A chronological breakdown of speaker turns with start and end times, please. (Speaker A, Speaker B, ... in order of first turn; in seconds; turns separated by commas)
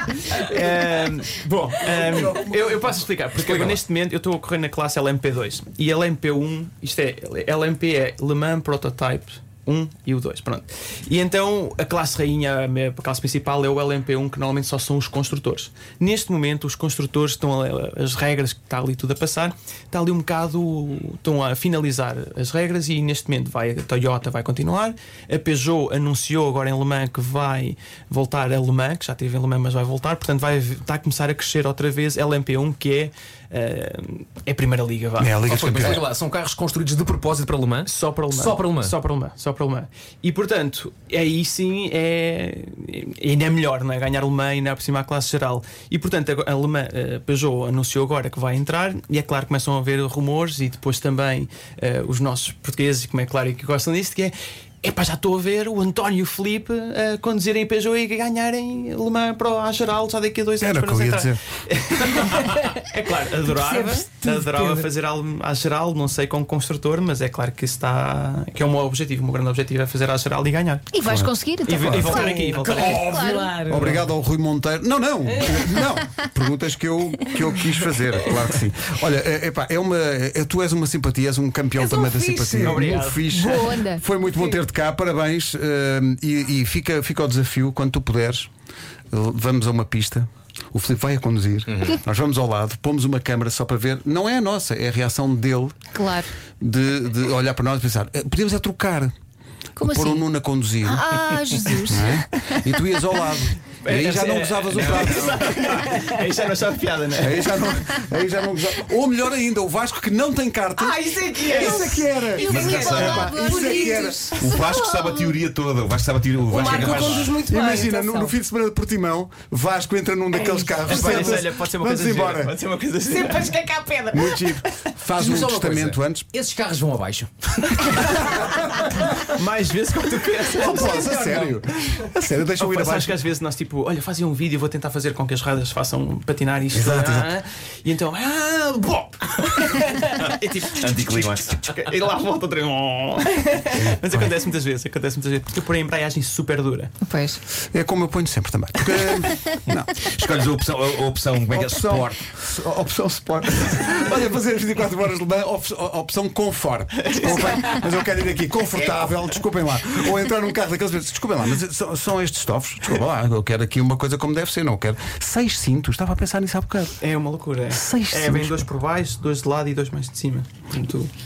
Speaker A: 0.3-36.0, Speaker B: 1.8-3.0, Speaker C: 3.4-3.8, Speaker B: 35.2-36.1, Speaker C: 35.5-38.9, Speaker A: 37.9-70.9, Speaker B: 60.6-61.4, Speaker D: 63.5-64.9, Speaker E: 70.9-73.5, Speaker B: 71.0-88.5, Speaker A: 71.6-73.2, Speaker D: 72.0-74.0, Speaker D: 75.3-75.8, Speaker D: 81.7-83.6, Speaker A: 82.6-83.2, Speaker E: 83.3-84.0, Speaker D: 84.3-84.6, Speaker B: 89.1-95.9, Speaker C: 91.7-92.0, Speaker E: 95.9-96.3, Speaker B: 96.6-99.1, Speaker E: 99.8-100.2, Speaker B: 99.8-105.8, Speaker E: 100.8-102.7, Speaker A: 103.8-107.5, Speaker C: 104.7-105.6, Speaker B: 107.2-114.3, Speaker D: 110.8-114.3, Speaker A: 110.8-112.1, Speaker E: 112.3-115.4, Speaker F: 112.4-113.4, Speaker F: 114.3-117.4, Speaker D: 116.5-118.3, Speaker B: 116.5-122.5, Speaker D: 120.4-121.3, Speaker A: 120.8-123.5, Speaker D: 123.1-124.6, Speaker B: 124.1-126.2, Speaker C: 125.2-128.4, Speaker B: 128.0-128.9, Speaker A: 129.2-132.0, Speaker B: 130.4-133.2, Speaker A: 132.6-146.9, Speaker B: 136.7-137.3, Speaker F: 140.7-141.7, Speaker B: 143.9-144.3, Speaker E: 147.0-147.4, Speaker B: 147.6-149.9, Speaker F: 149.7-152.1, Speaker B: 151.5-167.0, Speaker A: 156.9-157.8, Speaker A: 167.0-171.1, Speaker B: 167.7-168.7